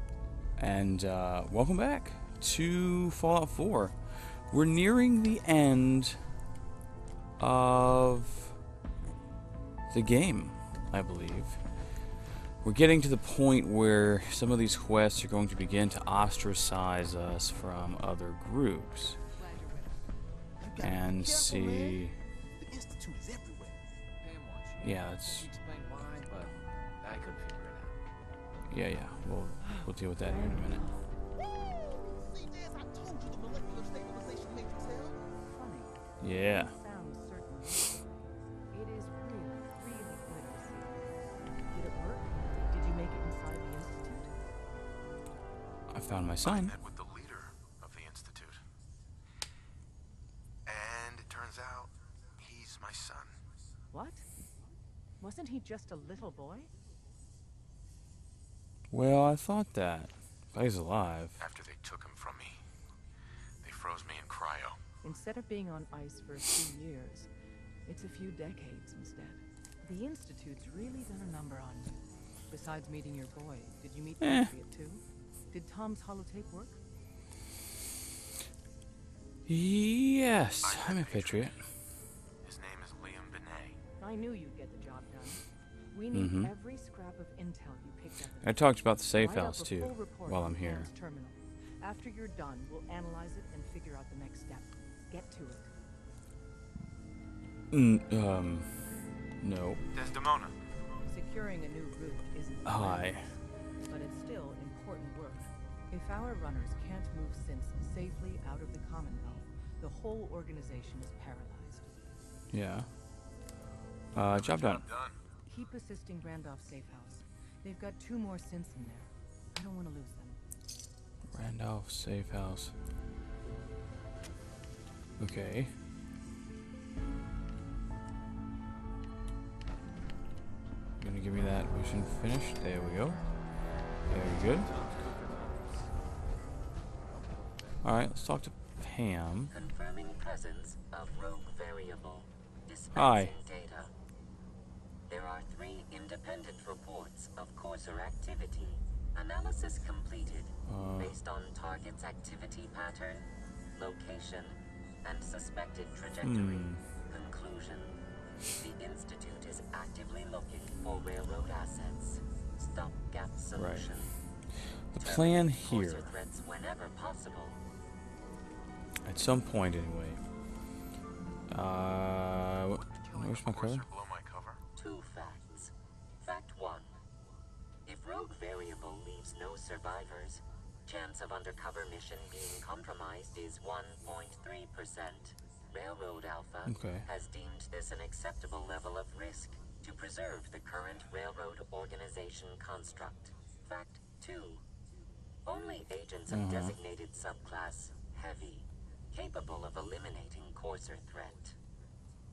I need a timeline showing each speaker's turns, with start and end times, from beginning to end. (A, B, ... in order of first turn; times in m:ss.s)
0:00.6-0:06.2 A
0:07.4-0:08.6 A
0:09.9-0:11.6 A
0:12.6-0:19.2 A
0:19.4-0:20.0 B
0:20.6-0:22.0 C
0:20.8-0:22.2 A
0:22.6-0:23.8 C
0:24.2-0:27.9 D
0:24.8-0:25.5 A
0:28.7-0:30.8 A
0:30.2-0:31.0 B
0:31.9-0:35.2 C
0:32.3-0:33.0 E
0:35.4-0:41.1 B
0:36.2-0:36.8 A
0:41.7-0:44.3 B
0:45.9-0:46.7 A
0:46.4-0:48.6 E
0:50.6-0:53.3 E
0:53.9-0:54.2 B
0:55.2-0:56.7 B
0:58.9-1:01.4 A
1:01.4-1:02.6 E
1:03.6-1:04.8 E
1:05.0-1:07.3 B
1:07.8-1:12.0 B
1:12.5-1:16.8 B
1:14.2-1:14.5 A
1:19.5-1:21.6 A
1:20.6-1:21.6 E
1:22.4-1:23.8 E
1:24.0-1:35.7 B
1:26.1-1:26.5 A
1:28.4-1:30.9 A
1:37.7-1:38.9 A
1:39.4-1:39.8 A
1:39.9-1:40.5 E
1:41.0-1:51.8 B
1:42.6-1:43.3 A
1:52.5-1:52.9 A
1:54.1-1:54.9 A
1:54.4-1:55.2 E
1:55.4-2:00.4 B
2:01.3-2:02.7 A
2:05.2-2:05.7 A
2:11.0-2:13.2 A
2:14.1-2:14.7 A
2:14.6-2:15.8 D
2:17.1-2:17.8 D
2:17.8-2:19.5 A
2:19.5-2:23.9 F
2:22.9-2:23.4 A
2:25.1-2:38.0 F
2:30.6-2:31.2 A
2:36.2-2:36.8 A
2:38.5-2:44.1 F
2:43.5-2:44.1 A
2:44.9-2:46.2 A
2:45.0-2:47.6 F
2:49.0-2:50.2 A
2:51.5-2:53.8 A
2:52.7-2:54.6 E
2:54.8-2:56.9 F
2:57.8-3:14.6 F
3:06.6-3:07.1 A
3:15.4-3:21.6 F
3:16.3-3:16.8 A